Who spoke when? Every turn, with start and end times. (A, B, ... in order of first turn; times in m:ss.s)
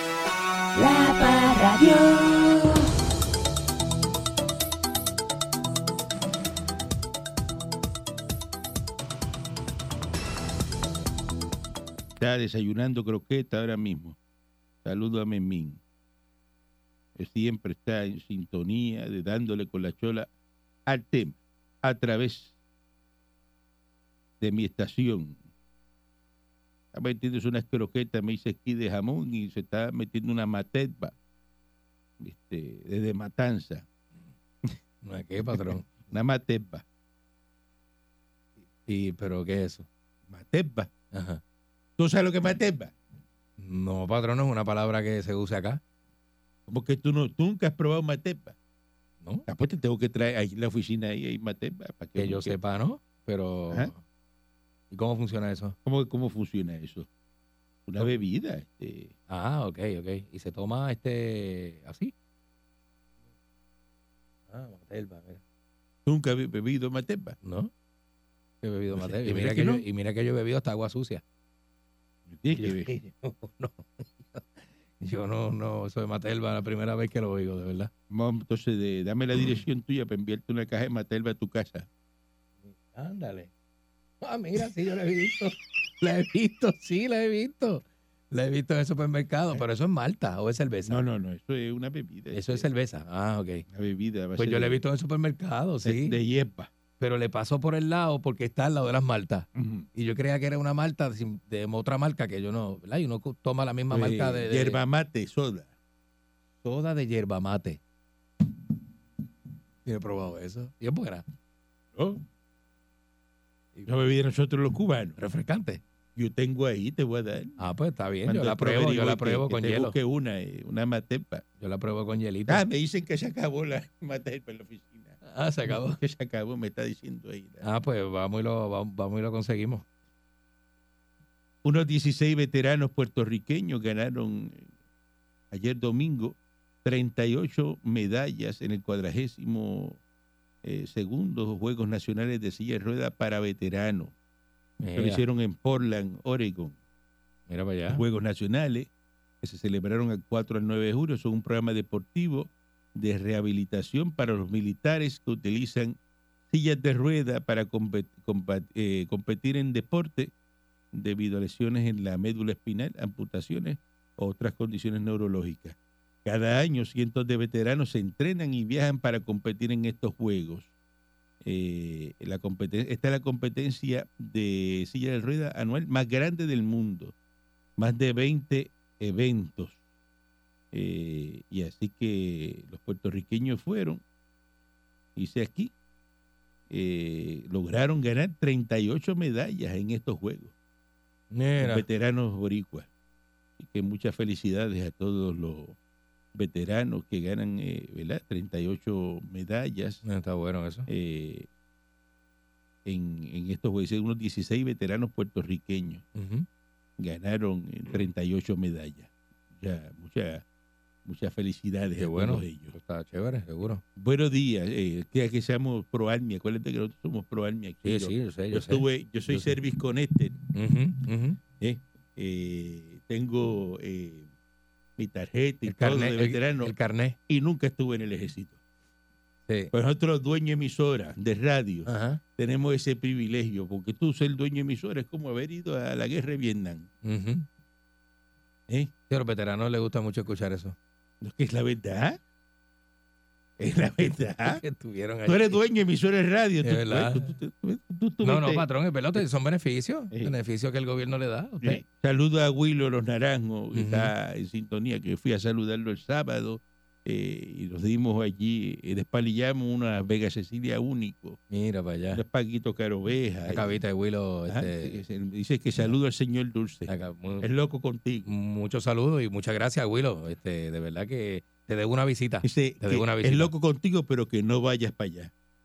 0:00.8-0:02.8 A
0:12.2-0:14.2 B
0:14.8-0:15.8 B
0:17.2-0:20.3 B
0:20.9-0:22.5 B
0:24.4-0:25.4 B
0:26.9-0:31.1 B
0:32.2-0:33.9 B
0:35.0-0:35.9 C
0:35.6-0:36.8 B
0:38.9-0:39.9 C
0:40.3-0:40.9 B
0:41.1-0:41.4 C
0:42.0-0:42.9 B
0:43.6-0:45.8 C
0:46.7-0:48.6 B
0:49.5-0:52.6 B
0:52.2-0:54.0 C
0:54.9-0:55.8 C
0:55.8-0:57.1 B
0:57.9-0:59.1 B
0:59.3-1:02.1 C
1:04.5-1:05.4 C
1:06.1-1:07.4 B
1:07.4-1:07.7 C
1:08.6-1:11.2 C
1:09.0-1:09.8 B
1:12.3-1:12.9 B
1:12.6-1:14.5 C
1:15.0-1:17.9 C
1:18.1-1:21.9 B
1:22.7-1:23.5 C
1:24.2-1:31.0 C
1:30.9-1:32.7 B
1:32.3-1:33.6 C
1:33.7-1:34.8 B
1:34.4-1:36.2 C
1:35.8-1:36.7 B
1:37.0-1:44.8 C
1:39.6-1:39.9 B
1:43.9-1:45.7 B
1:46.6-1:47.8 C
1:49.8-1:51.2 C
1:52.0-1:52.2 B
1:53.9-1:55.2 B
1:55.2-1:55.8 C
1:56.2-1:57.6 B
1:57.6-2:00.0 C
1:58.3-2:01.4 B
2:01.6-2:02.6 C
2:02.5-2:07.6 B
2:05.2-2:06.0 C
2:07.6-2:09.8 C
2:11.6-2:14.7 B
2:15.5-2:20.0 B
2:20.6-2:24.1 B
2:24.8-2:25.2 C
2:25.0-2:26.8 B
2:27.5-2:28.0 C
2:27.9-2:28.9 B
2:29.4-2:36.0 B
2:36.5-2:40.3 B
2:40.9-2:50.7 B
2:51.4-2:57.1 B
2:57.8-2:59.8 B
3:00.7-3:04.0 B
3:05.2-3:05.7 B
3:06.7-3:10.5 B
3:11.3-3:11.8 C
3:11.6-3:12.9 B
3:13.6-3:15.8 B
3:16.3-3:20.0 B
3:20.0-3:20.9 C
3:20.9-3:21.5 B
3:22.8-3:26.0 B
3:26.2-3:26.5 C
3:27.0-3:30.4 B
3:31.0-3:32.8 B
3:32.0-3:33.8 C
3:34.0-3:40.4 B
3:37.8-3:39.6 C
3:40.5-3:41.4 C
3:41.6-3:44.3 B
3:45.0-3:46.7 B
3:45.6-3:47.2 C
3:47.3-3:48.6 B
3:49.7-3:56.9 B
3:51.9-3:52.2 C
3:57.0-3:57.5 C
3:59.1-4:00.8 C
4:01.2-4:02.2 B
4:03.6-4:04.6 B
4:04.0-4:05.6 C
4:05.3-4:08.6 B
4:06.6-4:07.3 C
4:08.2-4:11.8 C
4:11.6-4:21.4 B
4:13.7-4:14.1 C
4:21.5-4:22.2 C
4:22.1-4:23.8 B
4:23.5-4:25.0 C
4:24.5-4:26.9 B
4:26.9-4:27.5 C
4:27.4-4:28.3 B
4:28.2-4:33.5 C
4:32.4-4:35.3 B